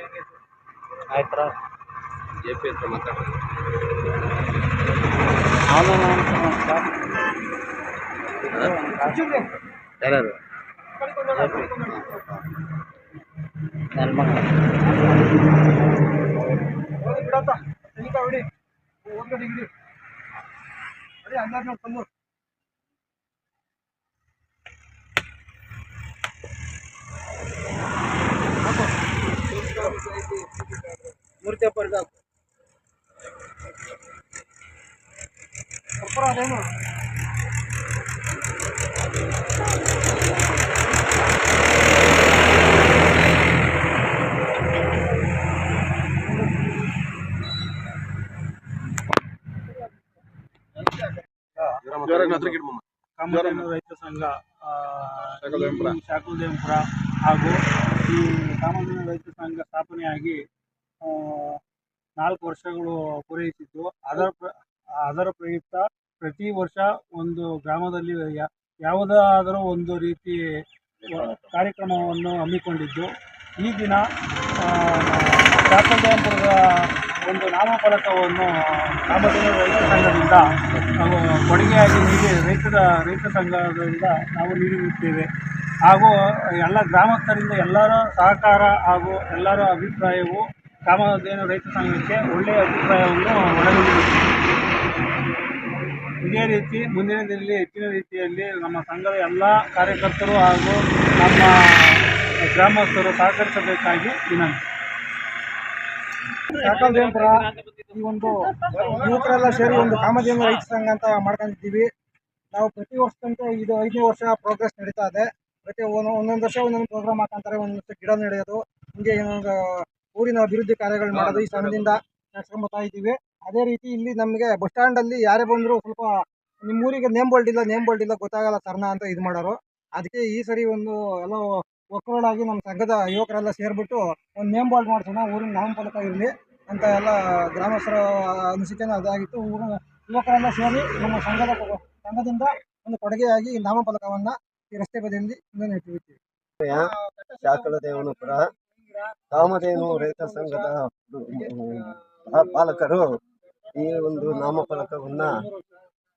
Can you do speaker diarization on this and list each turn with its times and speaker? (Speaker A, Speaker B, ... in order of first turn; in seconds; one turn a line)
Speaker A: 1.1-1.5
Speaker B: 2.4-3.3
Speaker A: 5.7-6.9
Speaker A: 8.5-9.2
Speaker C: 9.0-9.5
Speaker B: 10.1-10.3
Speaker C: 11.0-12.3
Speaker A: 11.4-11.7
Speaker A: 14.0-14.5
Speaker C: 16.9-18.4
Speaker C: 19.1-19.7
Speaker C: 21.2-22.1
Speaker C: 29.6-30.0
Speaker C: 31.4-32.0
Speaker C: 36.0-36.6
Speaker B: 51.9-53.6
Speaker D: 53.2-60.4
Speaker B: 55.4-56.0
Speaker D: 61.0-61.6
Speaker D: 62.2-70.4
Speaker D: 71.1-74.0
Speaker D: 74.6-85.3
Speaker D: 85.9-94.2
Speaker D: 96.2-104.7
Speaker C: 106.5-111.9
Speaker C: 112.5-119.6
Speaker C: 120.2-126.1
Speaker B: 121.1-121.9
Speaker C: 126.6-146.2
Speaker E: 146.6-146.9
Speaker C: 146.7-149.0
Speaker E: 147.4-148.4
Speaker E: 149.3-153.1
Speaker C: 149.7-150.7
Speaker E: 153.8-155.4
Speaker C: 154.7-155.7